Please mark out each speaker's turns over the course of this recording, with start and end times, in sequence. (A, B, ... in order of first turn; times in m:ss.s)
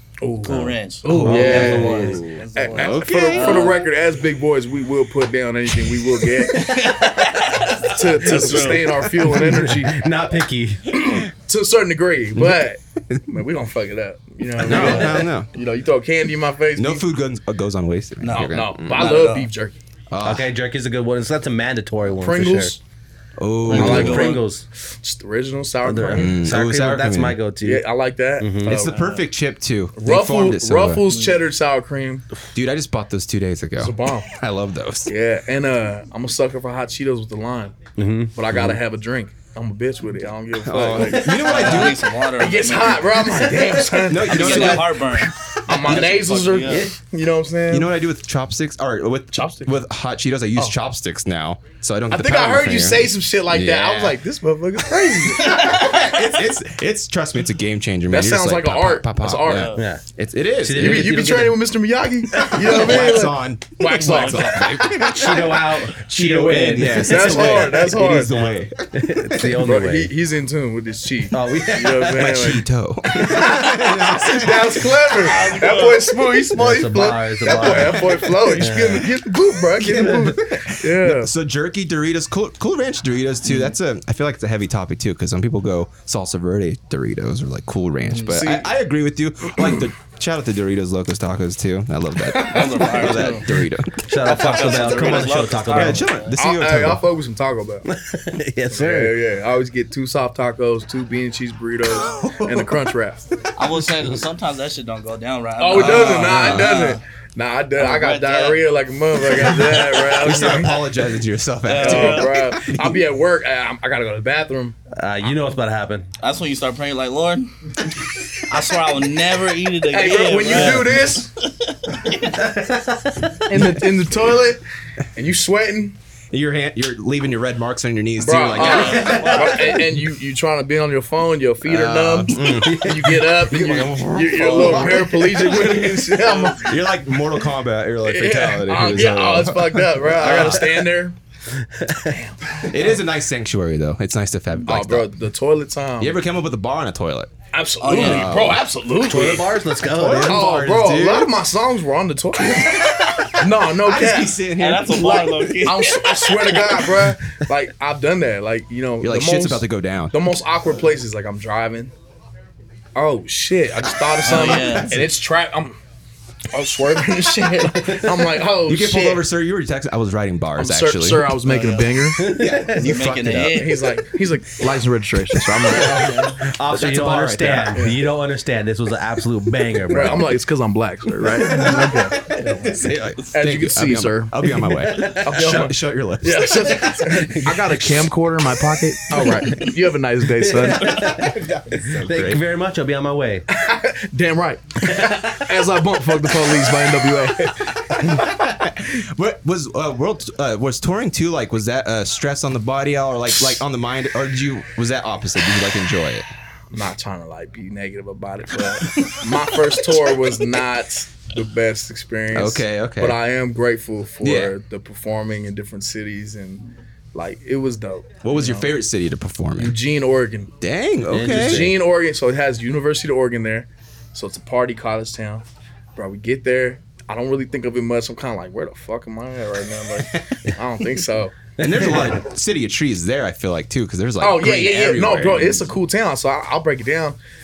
0:00.2-0:06.8 A
0:00.4-0:03.8 B
0:01.1-0:03.8 C
0:01.2-0:02.2 D
0:06.5-0:09.0 B
0:07.8-0:10.1 A
0:09.3-0:11.0 D
0:11.0-0:17.0 A
0:14.6-0:15.5 C
0:14.7-0:15.1 B
0:16.8-0:19.2 C
0:18.2-0:19.5 B
0:18.3-0:19.8 A
0:20.1-0:20.5 C
0:20.2-0:22.7 D
0:22.1-0:22.8 A
0:23.4-0:24.3 C
0:23.6-0:24.4 B
0:23.7-0:24.6 D
0:23.7-0:24.5 A
0:25.0-0:26.4 A
0:25.8-0:27.8 D
0:26.1-0:27.4 C
0:27.6-0:28.9 A
0:28.4-0:28.8 D
0:28.6-0:31.0 C
0:28.9-0:29.2 B
0:30.0-0:32.2 A
0:31.1-0:31.4 B
0:32.5-0:35.1 C
0:33.8-0:34.3 A
0:35.1-0:37.8 A
0:38.0-0:38.3 D
0:38.3-0:45.0 A
0:38.5-0:38.8 C
0:40.6-0:42.2 C
0:41.4-0:43.5 B
0:43.8-0:45.1 C
0:44.2-0:46.9 B
0:45.7-0:47.9 A
0:46.6-0:46.9 D
0:47.7-0:54.2 C
0:49.3-0:49.7 A
0:52.1-0:55.8 A
0:55.0-1:01.2 C
0:55.4-0:56.2 B
0:58.1-0:59.8 A
0:59.5-0:59.9 B
0:59.8-1:00.0 D
1:00.6-1:01.6 D
1:00.8-1:05.1 A
1:02.4-1:02.7 D
1:02.4-1:09.6 C
1:05.1-1:10.1 D
1:06.7-1:08.4 A
1:09.6-1:21.3 A
1:11.3-1:12.4 D
1:12.1-1:15.3 C
1:15.2-1:16.1 B
1:16.5-1:19.1 D
1:17.5-1:19.0 C
1:19.7-1:34.1 C
1:20.0-1:20.2 D
1:28.1-1:28.4 B
1:28.2-1:28.7 A
1:32.3-1:33.0 A
1:32.4-1:33.5 B
1:34.0-1:36.1 D
1:34.2-1:36.4 B
1:35.7-1:37.0 C
1:36.4-1:37.9 A
1:37.9-1:39.2 D
1:38.7-1:43.3 A
1:41.9-1:42.8 C
1:43.6-1:47.0 B
1:45.6-1:50.8 A
1:45.7-1:46.8 C
1:47.8-1:48.6 B
1:49.4-1:53.0 C
1:51.6-1:52.5 B
1:51.8-1:54.8 A
1:54.9-1:56.1 D
1:56.2-1:57.9 B
1:58.4-2:02.4 B
1:59.9-2:01.3 A
2:00.5-2:00.8 C
2:02.3-2:03.4 D
2:03.5-2:04.6 A
2:05.2-2:06.0 A
2:06.3-2:09.9 C
2:08.2-2:16.8 A
2:08.6-2:09.7 B
2:11.6-2:20.8 C
2:12.3-2:13.1 D
2:18.0-2:21.2 A
2:21.6-2:22.2 D
2:21.9-2:23.0 A
2:22.6-2:25.1 C
2:24.7-2:26.2 A
2:26.0-2:27.3 C
2:27.5-2:29.5 A
2:27.8-2:28.3 B
2:27.9-2:28.6 C
2:29.0-2:30.4 D
2:29.9-2:31.3 C
2:30.2-2:34.4 A
2:32.5-2:35.6 C
2:34.6-2:36.7 B
2:35.6-2:41.9 A
2:39.0-2:40.2 C
2:43.0-2:45.8 A
2:44.2-2:45.0 B
2:44.2-2:45.1 C
2:46.5-2:49.2 A
2:48.6-2:51.4 C
2:50.6-2:52.4 A
2:51.4-2:51.9 B
2:52.2-2:52.9 D
2:52.3-2:53.8 C
2:52.7-2:53.8 B
2:53.4-2:56.3 A
2:55.7-2:57.8 C
2:55.7-3:00.3 D
2:57.7-2:58.0 A
2:59.9-3:02.7 A
3:01.2-3:07.9 C
3:03.3-3:11.2 A
3:04.8-3:05.3 D
3:07.1-3:07.6 D
3:10.4-3:13.5 D
3:10.8-3:12.4 C
3:13.5-3:18.2 A
3:14.9-3:15.4 D
3:17.9-3:26.3 C
3:26.7-3:38.7 A
3:32.3-3:33.2 C
3:34.2-3:34.5 C
3:38.2-3:39.8 C
3:39.6-3:40.5 A
3:40.6-3:41.7 C
3:41.1-3:41.8 D
3:41.4-3:51.5 A
3:51.6-3:52.2 D
3:51.6-3:55.7 C
3:54.2-3:57.2 A